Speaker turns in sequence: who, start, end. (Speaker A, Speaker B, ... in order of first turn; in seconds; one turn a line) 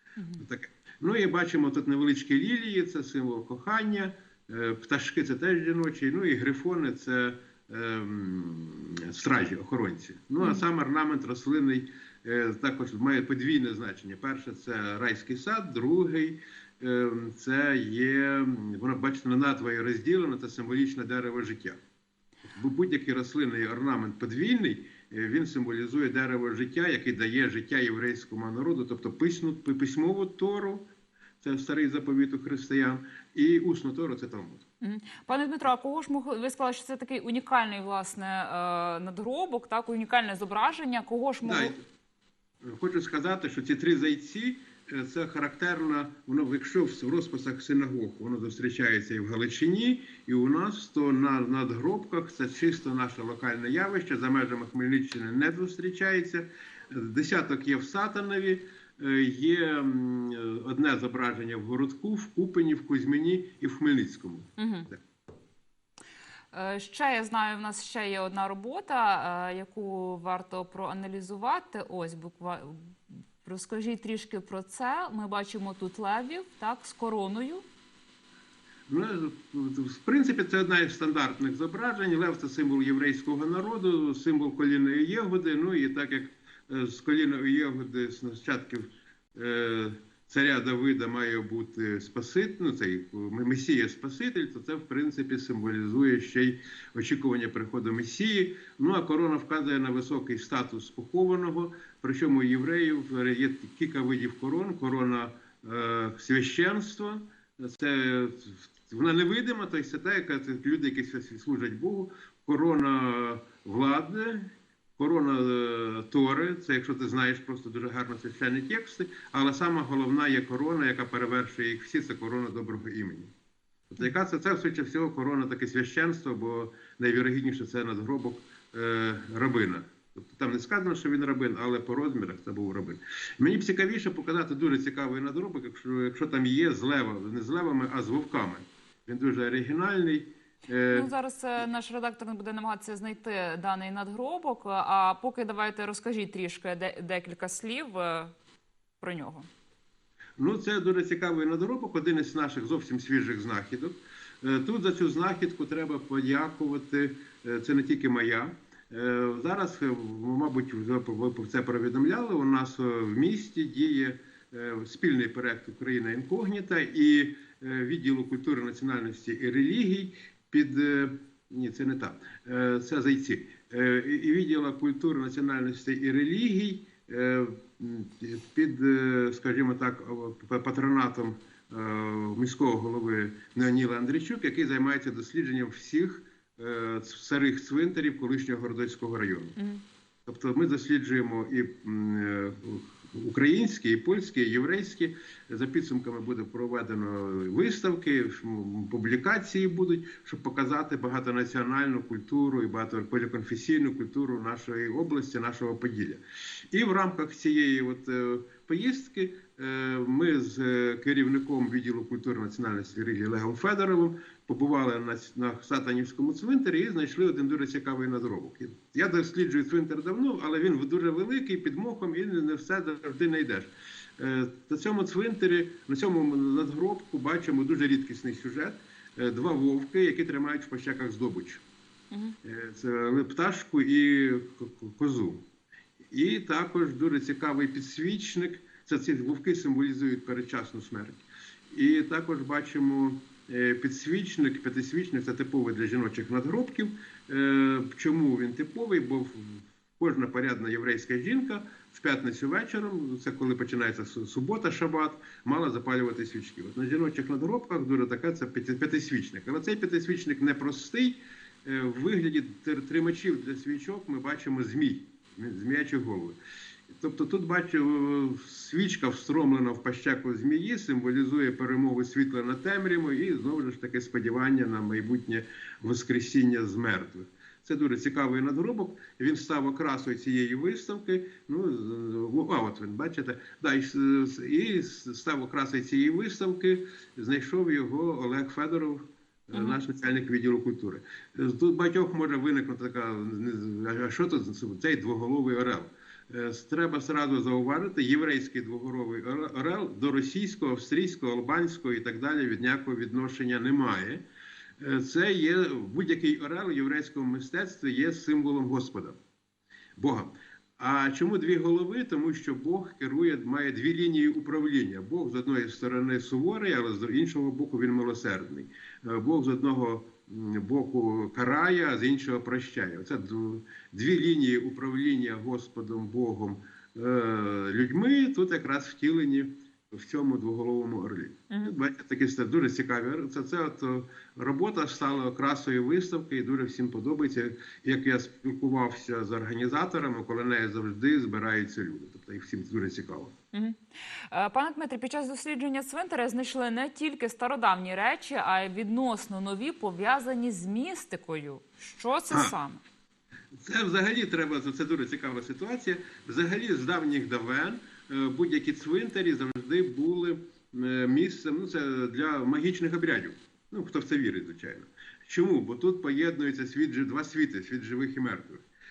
Speaker A: 0.4-21.8
Speaker A: 22.4-30.9
Speaker A: 31.4-34.6
Speaker B: 34.8-41.8
Speaker A: 41.4-41.8
Speaker A: 42.6-65.0
Speaker B: 64.6-64.9
Speaker B: 66.5-77.6
Speaker A: 78.9-123.3
Speaker A: 123.9-141.1
Speaker B: 140.9-148.3
Speaker B: 149.0-149.5
Speaker A: 150.4-189.6
Speaker B: 189.6-189.8
Speaker A: 190.2-231.6
Speaker B: 232.1-232.4
Speaker A: 232.4-235.4
Speaker A: 236.1-266.4
Speaker A: 266.9-304.2
Speaker B: 289.5-289.8
Speaker A: 304.8-309.2
Speaker A: 310.0-343.3
Speaker B: 343.5-343.8
Speaker B: 344.3-352.8
Speaker A: 353.5-368.6